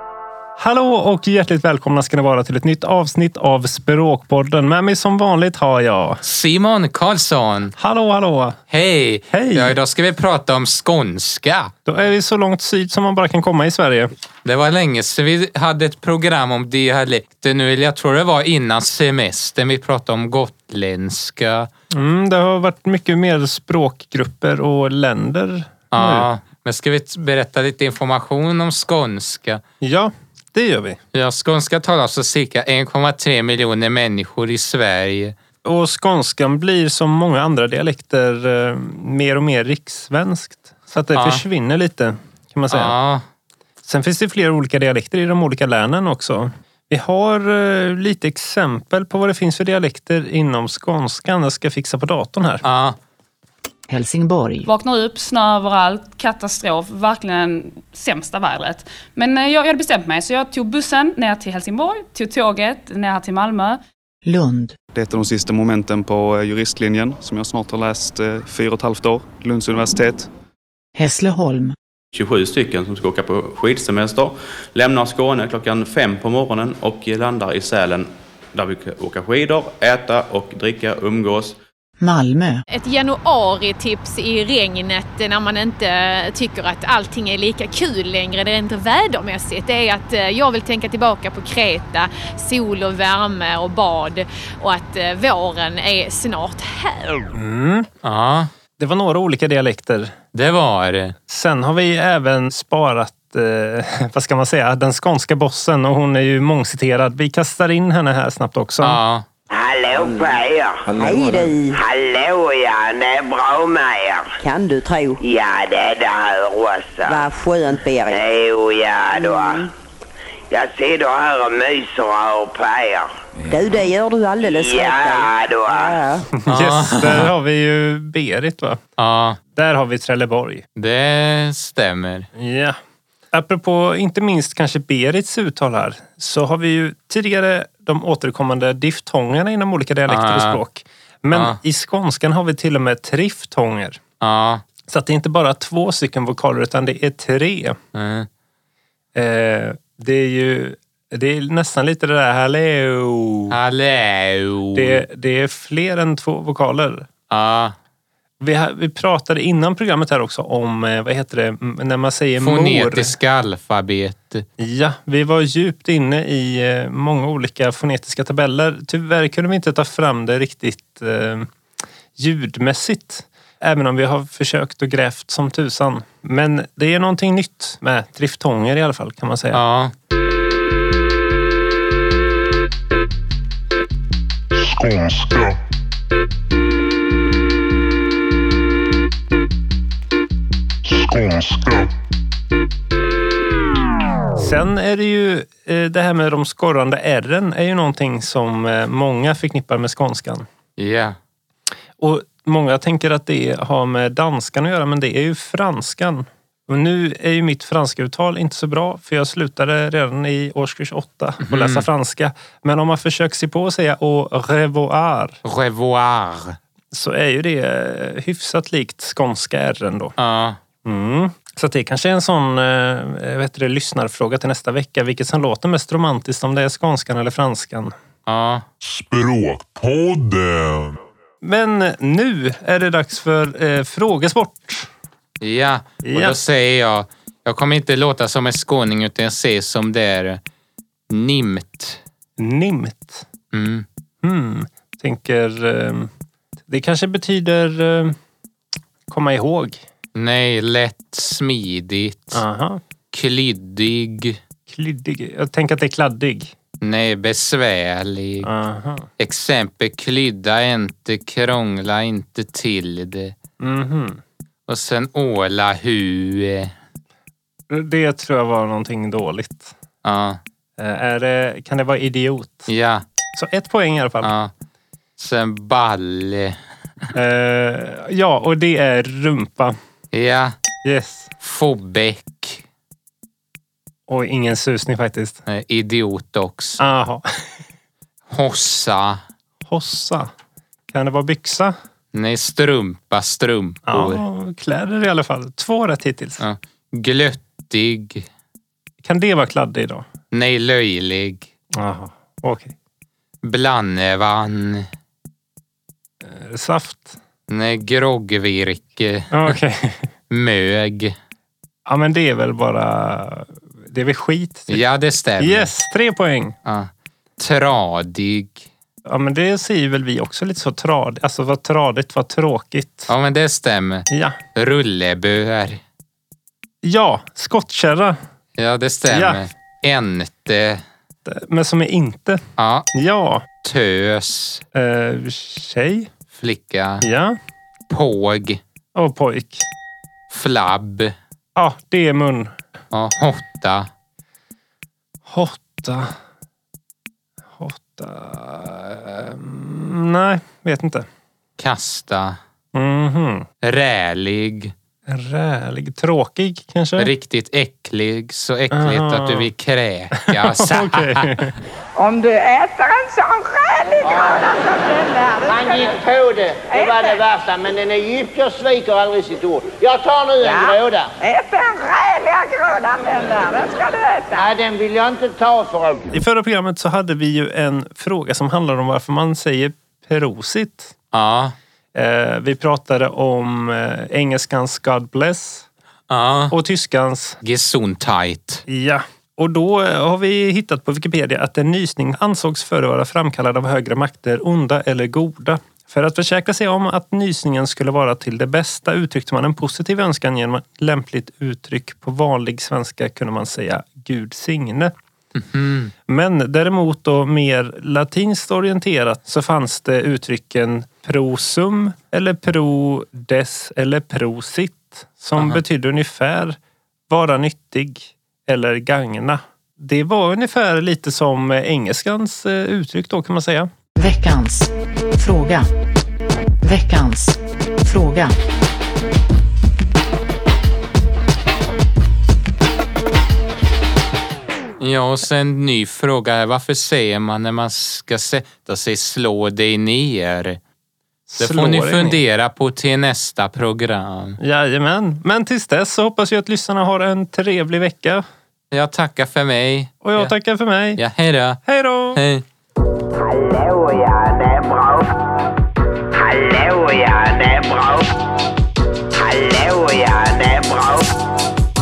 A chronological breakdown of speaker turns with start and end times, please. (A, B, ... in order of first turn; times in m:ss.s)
0:00.6-0:06.2 A
0:06.2-0:07.7 B
0:07.8-0:08.6 A
0:08.7-0:11.7 B
0:09.3-0:09.8 A
0:11.9-0:14.1 A
0:14.4-0:21.7 B
0:21.9-0:26.3 A
0:25.9-0:29.6 B
0:29.8-0:31.0 A
0:31.1-0:35.4 B
0:35.6-0:43.0 A
0:41.2-0:41.4 B
0:42.7-0:43.2 B
0:43.8-0:52.6 A
0:52.6-0:53.0 B
0:53.9-0:54.7 C
0:54.6-1:03.8 D
1:04.3-1:04.8 C
1:04.9-1:10.3 E
1:11.0-1:11.8 C
1:12.1-1:21.6 F
1:22.0-1:22.6 C
1:22.7-1:37.1 G
1:37.3-1:37.9 A
1:38.0-1:38.5 B
1:38.8-1:40.1 A
1:40.3-1:41.2 B
1:41.3-1:49.0 A
1:48.8-1:49.2 B
1:49.5-1:50.9 H
1:51.0-1:51.8 I
1:51.7-1:54.3 H
1:54.4-1:55.2 I
1:55.2-1:59.7 H
1:57.1-1:58.2 I
2:00.5-2:03.1 H
2:03.5-2:06.3 I
2:04.4-2:06.0 H
2:06.4-2:08.8 A
2:06.5-2:07.3 B
2:09.0-2:09.4 B
2:09.6-2:10.6 A
2:10.8-2:12.3 B
2:12.4-2:12.8 A
2:13.3-2:24.0 A
2:20.1-2:20.6 B
2:21.3-2:21.6 B
2:24.2-2:24.6 B
2:24.9-2:27.8 A
2:28.0-2:28.3 B
2:29.2-2:33.6 A
2:33.5-2:35.0 B
2:34.7-2:37.1 A
2:37.3-2:37.7 B
2:38.4-2:43.1 A
2:42.4-2:44.5 B
2:44.6-2:51.5 A
2:52.2-2:59.6 A
2:59.5-2:59.9 B
3:04.5-3:05.6 J
3:10.8-3:11.9 J
3:14.4-3:20.4 A
3:20.8-3:21.2 B
3:22.0-3:35.4 A
3:31.5-3:31.8 B
3:35.4-3:36.6 B
3:36.9-3:40.2 A
3:40.2-3:40.6 B
3:40.8-3:47.9 A
3:48.3-3:48.6 B
3:48.8-3:51.0 J
3:51.4-3:54.9 A
3:55.4-4:00.4 B
3:56.0-3:56.4 A
4:01.1-4:02.0 B
4:02.4-4:03.2 A
4:03.5-4:03.9 B
4:04.2-4:06.1 A
4:06.7-4:08.2 A
4:09.1-4:09.8 A
4:10.2-4:12.4 B
4:12.3-4:12.8 A
4:13.1-4:14.4 B
4:14.7-4:16.5 A
4:16.8-4:18.5 B
4:18.4-4:19.1 A
4:19.2-4:23.3 B
4:23.6-4:24.2 A
4:24.7-4:26.7 B
4:27.7-4:29.7 A
4:30.0-4:30.4 B
4:30.8-4:32.7 A
4:32.7-4:33.0 B
4:33.3-4:34.3 A
4:34.2-4:34.5 B
4:35.2-4:36.6 B
4:37.1-4:39.8 A
4:40.1-4:40.5 B
4:40.8-4:41.3 A
4:41.4-4:42.6 B
4:44.1-4:45.4 A
4:45.5-4:46.8 B
4:46.8-4:47.2 A
4:48.3-4:49.2 B
4:49.7-4:50.3 A
4:50.9-4:51.7 A
4:52.1-4:54.2 B
4:53.9-4:56.4 A
4:56.4-4:58.3 B
4:59.0-5:00.1 A
5:00.3-5:01.5 B
5:01.8-5:02.8 A
5:03.4-5:04.9 B
5:06.2-5:07.2 A
5:07.5-5:09.6 B
5:09.3-5:10.0 A
5:10.3-5:11.1 B
5:11.9-5:14.8 A
5:14.7-5:15.7 B
5:15.4-5:16.6 A
5:16.6-5:18.6 B
5:19.1-5:23.1 A
5:23.1-5:25.8 B
5:24.1-5:24.4 A
5:26.8-5:28.2 A
5:28.6-5:30.8 B
5:29.1-5:29.4 A
5:31.3-5:32.4 A
5:32.6-5:32.9 B
5:32.9-5:33.4 A
5:33.6-5:34.6 B
5:34.8-5:36.1 A
5:36.3-5:37.0 B
5:37.0-5:37.4 A
5:37.9-5:38.6 B
5:39.0-5:39.6 A
5:40.3-5:41.1 B
5:41.6-5:42.5 A
5:42.9-5:43.9 B
5:45.3-5:46.1 A
5:47.6-5:51.0 A
5:51.6-5:52.4 B
5:52.8-5:53.5 A
5:53.6-5:54.7 B
5:55.1-5:57.1 A
5:57.0-6:01.3 B
5:58.7-5:59.5 A
6:00.4-6:01.5 A
6:02.0-6:05.9 K
6:05.8-6:06.6 L
6:06.7-6:07.2 K
6:07.2-6:11.0 L
6:10.5-6:14.5 K
6:14.6-6:15.8 L
6:16.1-6:20.9 A
6:21.1-6:21.5 B
6:22.0-6:25.7 A
6:26.1-6:26.5 B
6:26.5-6:27.4 A
6:27.4-6:28.6 B
6:28.7-6:44.9 A
6:45.4-6:45.9 B
6:46.1-6:56.6 A
6:57.1-7:03.7 A
7:04.0-7:05.7 C
7:06.6-7:08.3 C
7:14.8-7:20.6 B
7:21.3-7:22.2 A
7:21.4-7:24.4 B
7:24.4-7:28.2 A
7:28.7-7:30.3 B
7:30.0-7:31.0 A
7:31.0-7:31.6 B
7:31.6-7:32.2 A
7:32.2-7:32.4 B
7:33.1-7:35.1 H
7:36.1-7:38.1 H
7:39.1-7:41.1 H